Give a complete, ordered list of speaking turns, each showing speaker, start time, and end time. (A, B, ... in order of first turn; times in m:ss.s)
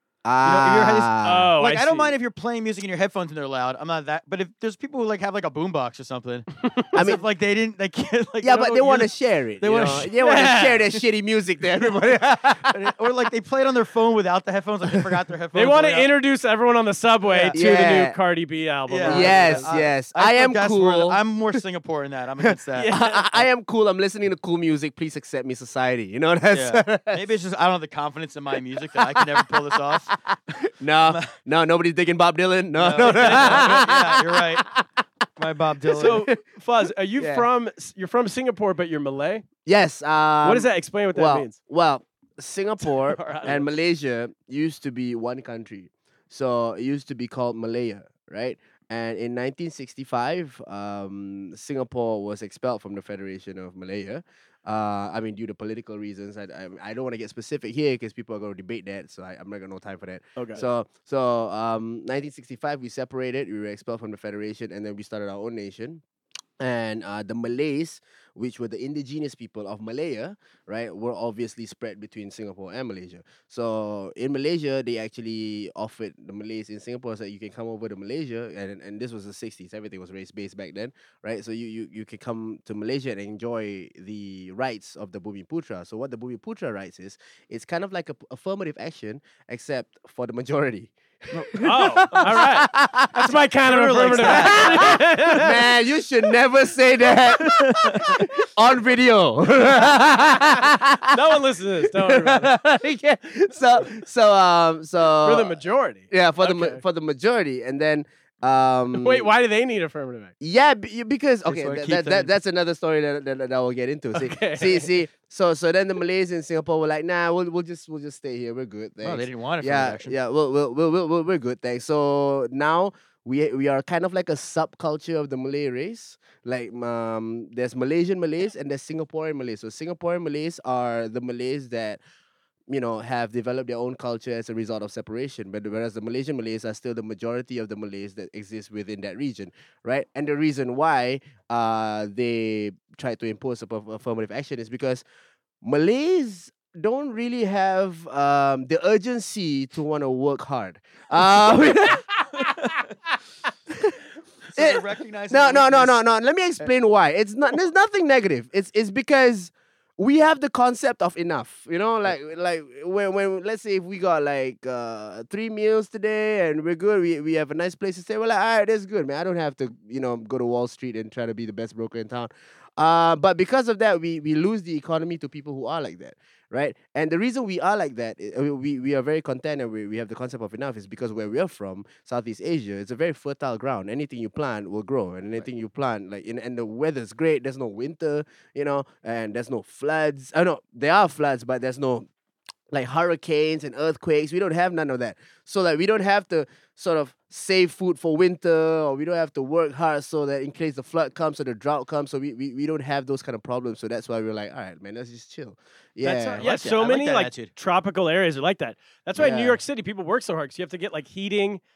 0:00.2-0:01.6 A
0:00.4-0:10.1 B
0:01.2-0:02.2 C
0:06.9-0:07.2 A
0:08.4-0:12.8 A
0:10.1-0:10.8 C
0:12.4-0:16.1 B
0:15.5-0:19.7 C
0:17.2-0:17.6 B
0:17.5-0:18.2 A
0:18.9-0:23.5 B
0:19.0-0:21.2 A
0:22.5-0:27.2 A
0:22.8-0:23.3 C
0:26.5-0:30.1 B
0:28.9-0:30.1 A
0:30.8-0:34.8 A
0:31.0-0:31.3 B
0:32.8-0:34.7 B
0:33.0-0:33.8 C
0:35.4-0:36.2 B
0:35.9-0:36.4 A
0:35.9-0:39.4 C
0:37.2-0:37.5 A
0:39.7-1:06.0 A
0:40.4-0:41.6 C
0:43.0-0:43.7 C
1:00.4-1:00.6 C
1:06.6-1:41.3 A
1:31.6-1:35.6 C
1:33.7-1:35.0 B
1:37.4-1:38.2 B
1:41.1-1:42.5 C
1:41.9-1:45.6 A
1:45.2-1:46.8 C
1:46.1-1:49.3 A
1:48.9-1:50.3 C
1:50.4-2:12.0 A
1:51.4-1:52.3 B
1:54.2-1:54.9 C
1:59.0-2:00.2 B
2:12.7-2:25.0 A
2:25.6-2:32.8 A
2:34.5-2:36.0 B
2:34.6-3:12.1 A
3:12.7-3:26.4 A
3:26.0-3:31.6 C
3:26.4-3:27.5 B
3:29.2-3:29.6 A